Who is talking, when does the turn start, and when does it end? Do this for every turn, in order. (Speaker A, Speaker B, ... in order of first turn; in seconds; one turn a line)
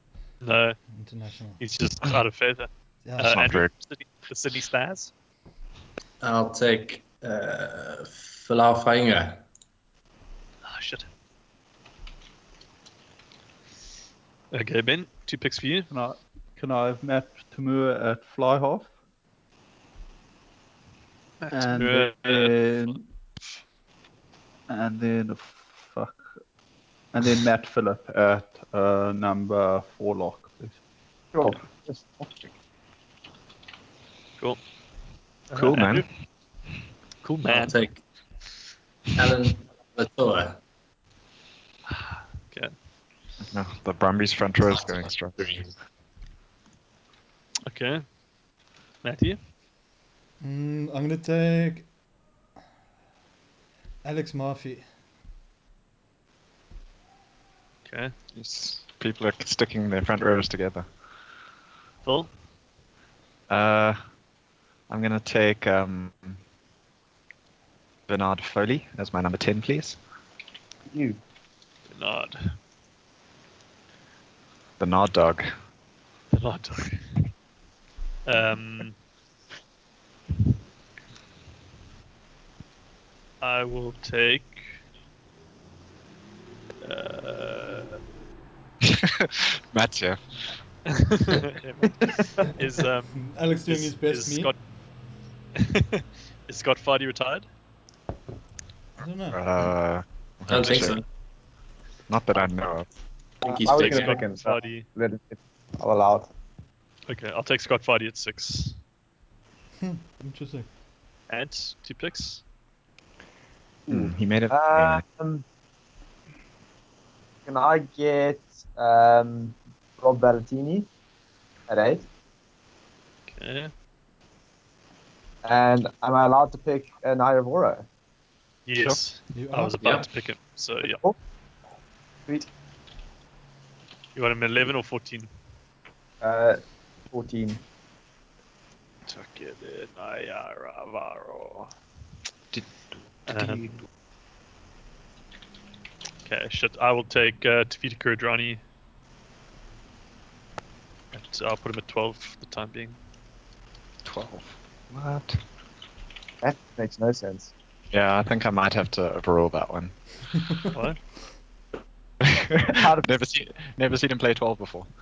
Speaker A: 0.4-0.9
Speaker B: 0.9-1.6
Speaker A: 1.6-5.1
Speaker B: 3.0-3.5
Speaker C: 3.2-3.7
Speaker D: 6.2-9.4
Speaker A: 10.6-11.1
Speaker A: 14.5-15.9
Speaker E: 15.9-18.9
Speaker A: 21.4-23.0
Speaker E: 21.5-23.0
Speaker E: 24.7-26.2
Speaker E: 27.1-30.8
Speaker F: 31.3-32.5
Speaker A: 35.5-36.1
Speaker C: 35.5-36.1
Speaker A: 37.2-37.9
Speaker D: 37.5-38.0
Speaker D: 39.1-40.6
Speaker A: 41.9-42.7
Speaker C: 43.4-45.5
Speaker D: 44.7-45.7
Speaker A: 47.7-48.0
Speaker A: 49.0-49.4
Speaker B: 50.4-51.9
Speaker B: 54.0-54.9
Speaker A: 57.9-58.1
Speaker C: 58.4-60.9
Speaker A: 62.0-62.3
Speaker C: 63.5-64.0
Speaker C: 64.9-66.4
Speaker C: 68.1-70.0
Speaker F: 70.9-71.2
Speaker A: 71.9-72.6
Speaker C: 74.8-75.5
Speaker A: 76.3-77.3
Speaker A: 78.3-79.0
Speaker A: 83.4-84.6
Speaker A: 86.8-88.0
Speaker C: 88.8-90.2
Speaker A: 90.9-94.6
Speaker B: 93.2-94.5
Speaker A: 95.6-97.5
Speaker B: 99.0-99.4
Speaker C: 99.3-101.0
Speaker D: 100.5-101.0
Speaker C: 102.1-102.9
Speaker D: 103.4-104.2
Speaker F: 103.5-106.3
Speaker A: 103.7-104.9
Speaker A: 107.1-108.8
Speaker B: 109.8-110.7
Speaker A: 111.3-112.4
Speaker F: 113.9-115.5
Speaker C: 113.9-115.0
Speaker F: 117.5-120.9
Speaker F: 121.7-122.1
Speaker A: 123.3-123.7
Speaker F: 125.4-127.9
Speaker A: 128.7-131.0
Speaker B: 129.3-129.8
Speaker D: 129.8-130.1
Speaker F: 130.8-131.2
Speaker A: 134.2-135.3
Speaker F: 136.2-137.6
Speaker A: 139.1-141.7
Speaker A: 143.3-143.8
Speaker A: 146.2-148.6
Speaker A: 151.1-153.0
Speaker C: 154.0-155.4
Speaker F: 156.4-157.5
Speaker C: 157.9-159.9
Speaker A: 160.7-161.0
Speaker C: 162.2-164.9
Speaker F: 162.6-163.1